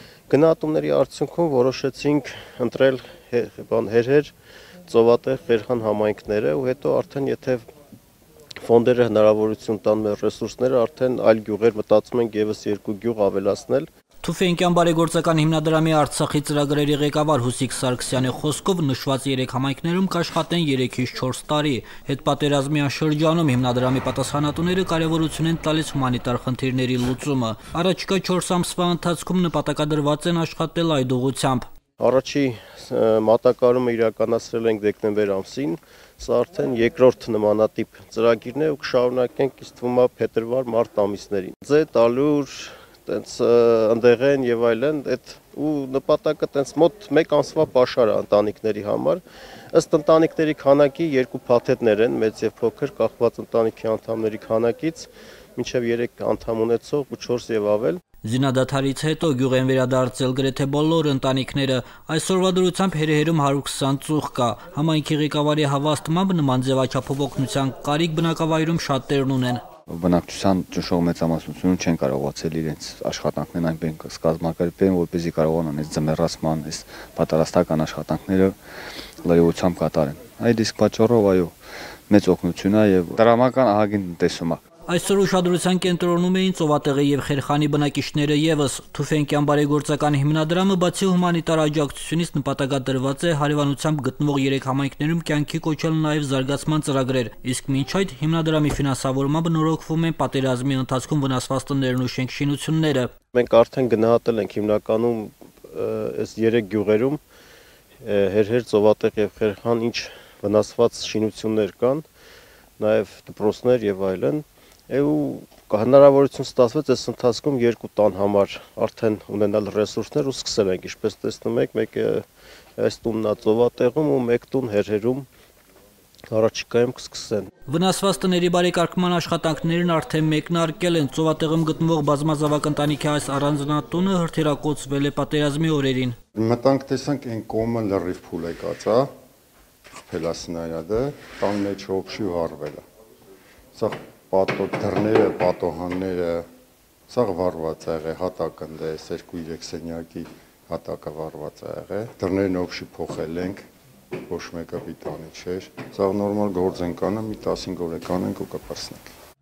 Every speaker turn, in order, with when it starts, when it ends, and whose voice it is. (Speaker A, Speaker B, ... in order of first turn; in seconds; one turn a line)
Speaker A: 0.3-4.3
Speaker A: 4.9-7.6
Speaker A: 8.6-13.9
Speaker B: 14.2-31.6
Speaker A: 32.0-49.2
Speaker A: 49.7-58.0
Speaker B: 58.2-69.6
Speaker C: 69.9-78.5
Speaker C: 79.2-81.5
Speaker C: 82.1-84.6
Speaker B: 84.9-103.1
Speaker A: 103.3-107.2
Speaker A: 108.0-112.0
Speaker A: 112.8-122.2
Speaker A: 122.8-125.3
Speaker A: 126.3-127.5
Speaker B: 127.7-136.1
Speaker D: 136.3-139.1
Speaker D: 140.0-142.8
Speaker D: 143.7-146.4
Speaker D: 147.1-153.6
Speaker D: 154.3-159.1